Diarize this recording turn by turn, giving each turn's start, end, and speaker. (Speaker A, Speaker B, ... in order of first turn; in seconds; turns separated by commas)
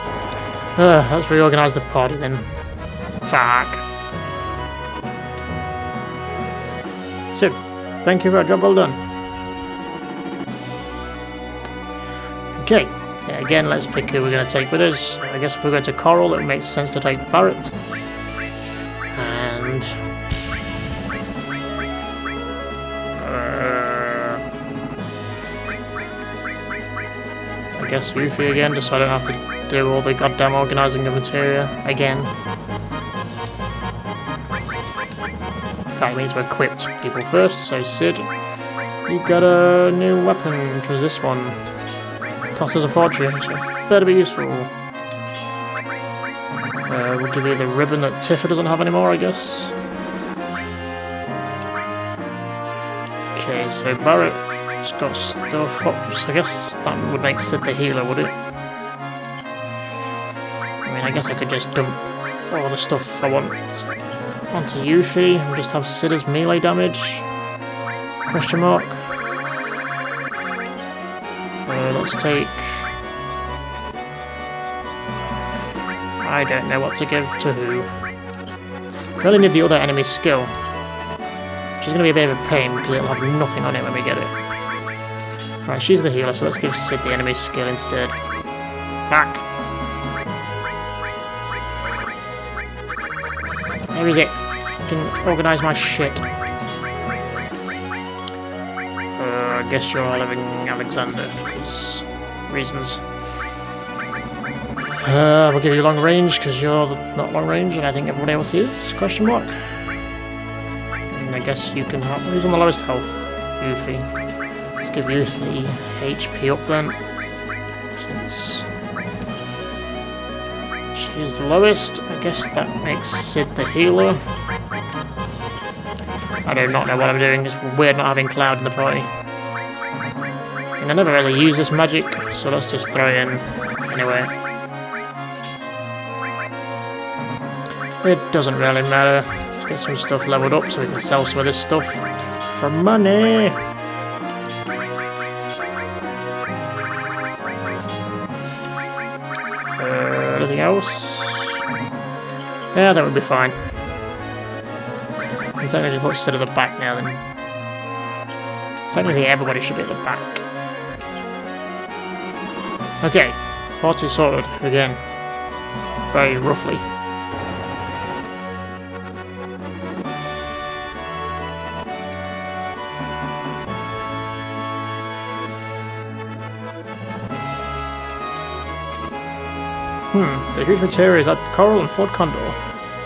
Speaker A: 0.8-3.8, Speaker A: 7.3-9.0, Speaker A: 12.5-17.7, Speaker A: 19.1-20.1, Speaker A: 23.2-24.4, Speaker A: 27.8-32.3, Speaker A: 35.9-38.3, Speaker A: 39.0-41.6, Speaker A: 42.5-44.7, Speaker A: 46.9-49.8, Speaker A: 53.3-58.4, Speaker A: 60.8-63.8, Speaker A: 64.5-67.3, Speaker A: 68.3-69.0, Speaker A: 71.7-72.9, Speaker A: 76.2-77.9, Speaker A: 79.2-80.5, Speaker A: 81.8-84.3, Speaker A: 85.6-88.2, Speaker A: 89.1-89.5, Speaker A: 93.9-96.3, Speaker A: 99.2-103.1, Speaker A: 105.0-110.0, Speaker A: 111.1-114.1, Speaker A: 114.8-117.0, Speaker A: 117.9-118.7, Speaker A: 120.9-124.2, Speaker A: 126.4-129.1, Speaker A: 130.8-134.3, Speaker A: 138.0-143.6, Speaker A: 149.8-151.6, Speaker A: 152.7-153.9, Speaker A: 155.6-157.2, Speaker A: 158.8-160.4, Speaker A: 163.0-165.0, Speaker A: 166.1-166.9, Speaker A: 180.1-182.6